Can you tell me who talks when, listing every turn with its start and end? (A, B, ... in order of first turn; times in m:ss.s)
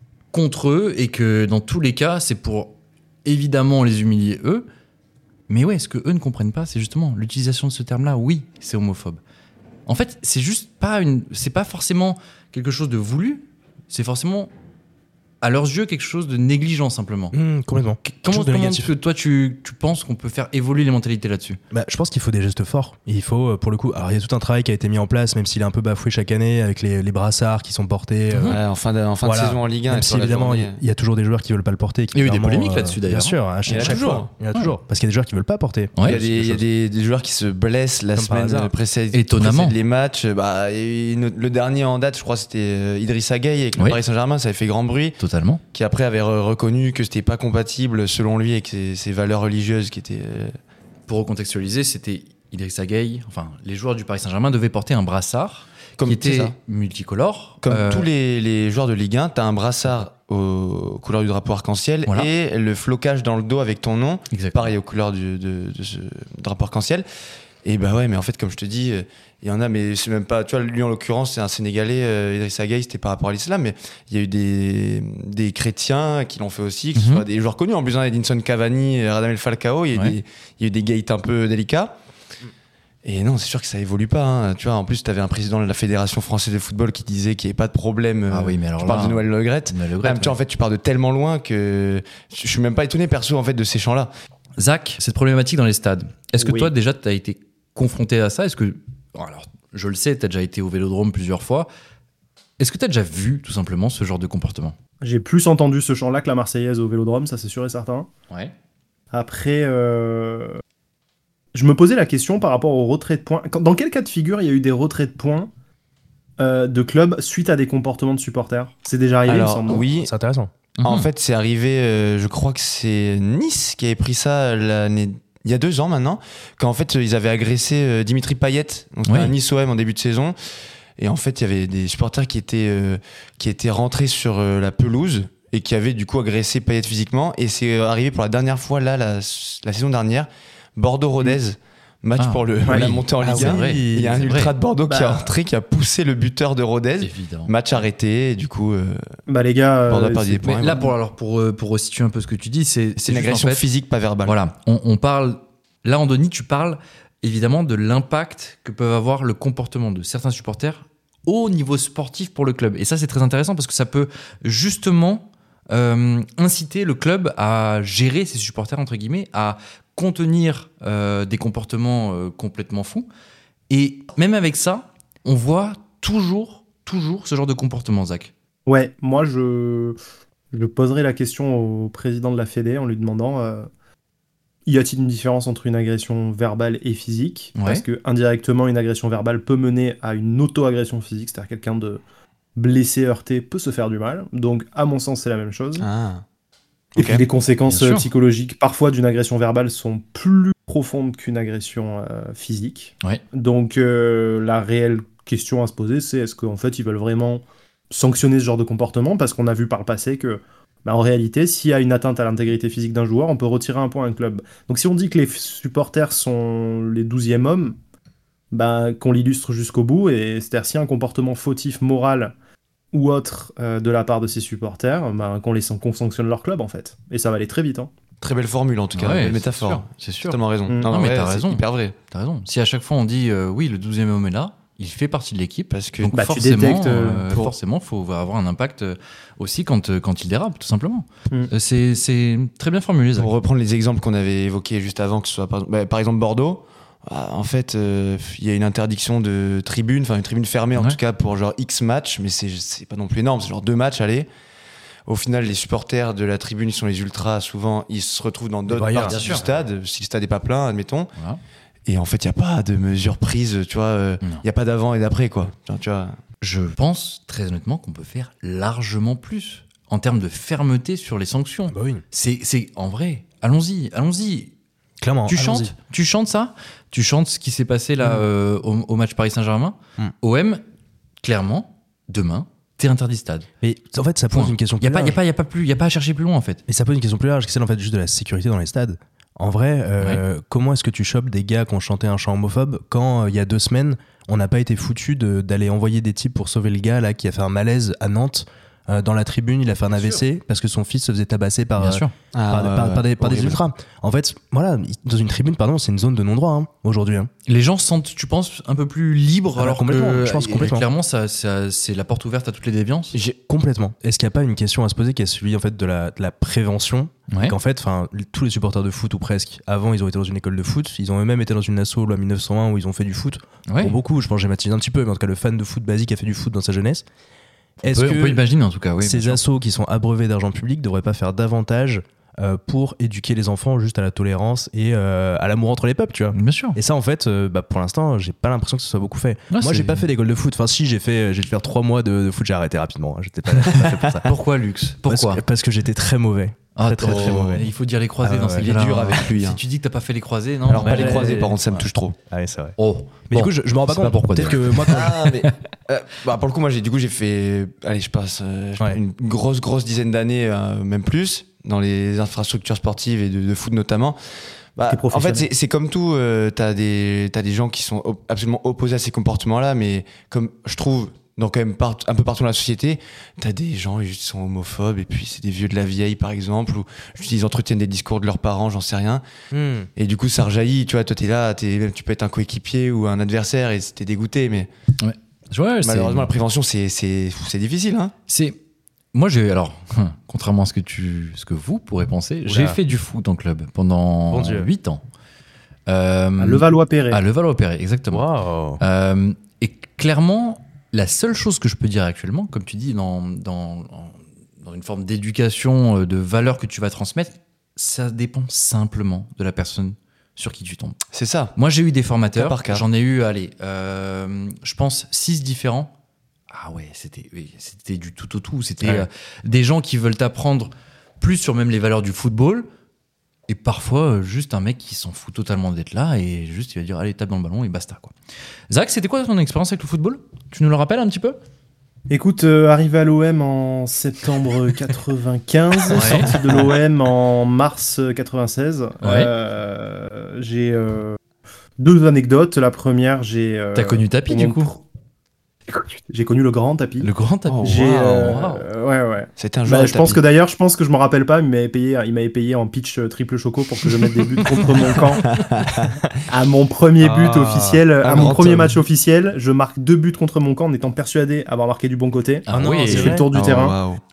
0:00.3-0:04.6 A
0:05.5-0:09.2 A
0:09.9-0:14.5 A
0:15.4-0:17.4 A
0:17.3-0:18.9 B
0:18.1-0:21.6 A
0:21.7-0:28.6 B
0:28.3-0:28.6 A
0:28.5-0:30.8 C
0:29.2-0:36.6 B
0:32.1-0:34.0 A
0:33.7-0:34.3 C
0:36.0-0:45.2 C
0:38.1-0:38.7 B
0:39.1-0:39.8 A
0:45.2-0:45.6 A
0:45.7-0:50.6 C
0:51.1-0:58.1 A
0:56.0-0:56.6 C
0:57.6-1:07.0 C
1:04.3-1:04.7 A
1:07.6-1:21.9 C
1:16.9-1:17.2 A
1:23.0-1:34.1 C
1:28.3-1:30.4 A
1:34.6-1:41.7 A
1:36.4-1:36.7 D
1:42.6-1:44.8 A
1:45.0-1:48.1 D
1:49.1-1:50.6 D
1:51.5-1:55.5 D
1:56.4-1:59.8 D
1:59.3-2:00.1 C
1:59.7-2:00.5 B
2:00.8-2:01.1 A
2:00.8-2:10.4 C
2:09.1-2:09.3 A
2:11.0-2:29.0 C
2:22.2-2:24.5 A
2:22.7-2:24.3 B
2:24.9-2:25.3 D
2:27.0-2:27.9 A
2:29.3-2:30.9 D
2:29.9-2:30.8 C
2:30.6-2:33.6 A
2:33.0-2:34.4 C
2:34.2-2:53.1 A
2:53.7-2:58.3 A
2:58.6-3:00.0 D
3:00.5-3:03.7 D
3:04.6-3:12.0 D
3:07.6-3:07.8 A
3:12.6-3:15.9 D
3:15.8-3:16.2 C
3:17.0-3:17.2 C
3:17.0-3:37.8 D
3:17.7-3:18.1 A
3:38.5-3:42.3 D
3:42.9-3:47.9 D
3:48.2-3:51.9 C
3:49.0-4:03.3 A
3:55.7-3:56.1 C
3:56.1-3:57.3 D
4:03.2-4:14.3 C
4:15.1-4:21.1 C
4:18.7-4:19.2 B
4:19.1-4:19.4 A
4:21.9-4:26.2 C
4:26.4-4:34.5 A
4:31.7-4:32.0 B
4:35.0-4:35.7 B
4:35.3-4:40.6 A
4:38.0-4:38.3 B
4:41.2-4:43.5 A
4:43.6-4:45.2 B
4:44.3-4:46.6 A
4:46.7-5:07.3 B
4:59.9-5:00.2 A
5:01.8-5:02.1 A
5:02.3-5:03.6 C
5:07.4-5:13.2 A
5:09.6-5:10.9 B
5:13.5-5:27.0 B
5:17.3-5:17.6 A
5:23.7-5:24.0 A
5:27.8-5:28.4 B
5:27.9-5:29.4 A
5:29.0-5:44.3 B
5:36.3-5:36.8 A
5:39.5-5:40.1 A
5:44.2-5:45.4 A
5:45.1-5:47.7 B
5:46.8-5:51.4 A
5:47.0-5:47.6 C
5:48.2-5:48.7 B
5:48.6-5:49.6 C
5:50.7-5:52.2 C
5:50.8-5:52.8 B
5:52.8-5:55.5 A
5:53.3-5:55.3 B
5:54.9-6:04.2 C
6:04.8-6:19.2 C
6:04.9-6:05.5 D
6:19.5-6:19.9 B
6:20.0-6:24.7 C
6:25.0-6:26.3 A
6:25.8-6:28.1 C
6:28.3-6:28.6 A
6:29.1-6:35.0 A
6:32.4-6:32.8 B
6:34.3-6:34.7 B
6:35.9-6:38.2 A
6:36.4-6:37.2 D
6:38.1-6:38.8 B
6:38.8-6:51.0 A
6:51.1-6:51.6 C
6:51.6-6:55.9 A
6:52.3-6:52.9 C
6:56.5-7:02.7 A
7:03.5-7:08.1 A
7:08.7-7:11.4 A
7:12.1-7:21.2 D
7:15.9-7:16.3 A
7:16.0-7:16.6 C
7:19.0-7:19.3 A
7:21.8-7:24.8 D
7:23.7-7:24.7 A
7:25.7-7:27.1 D
7:27.0-7:28.7 A
7:27.5-7:28.0 C
7:27.6-7:35.3 D
7:29.4-7:30.2 C
7:35.2-7:36.0 C
7:36.3-7:43.8 D
7:37.0-7:37.9 B
7:38.0-7:38.8 C
7:42.5-7:43.2 A
7:42.5-7:43.3 B
7:43.3-7:44.0 C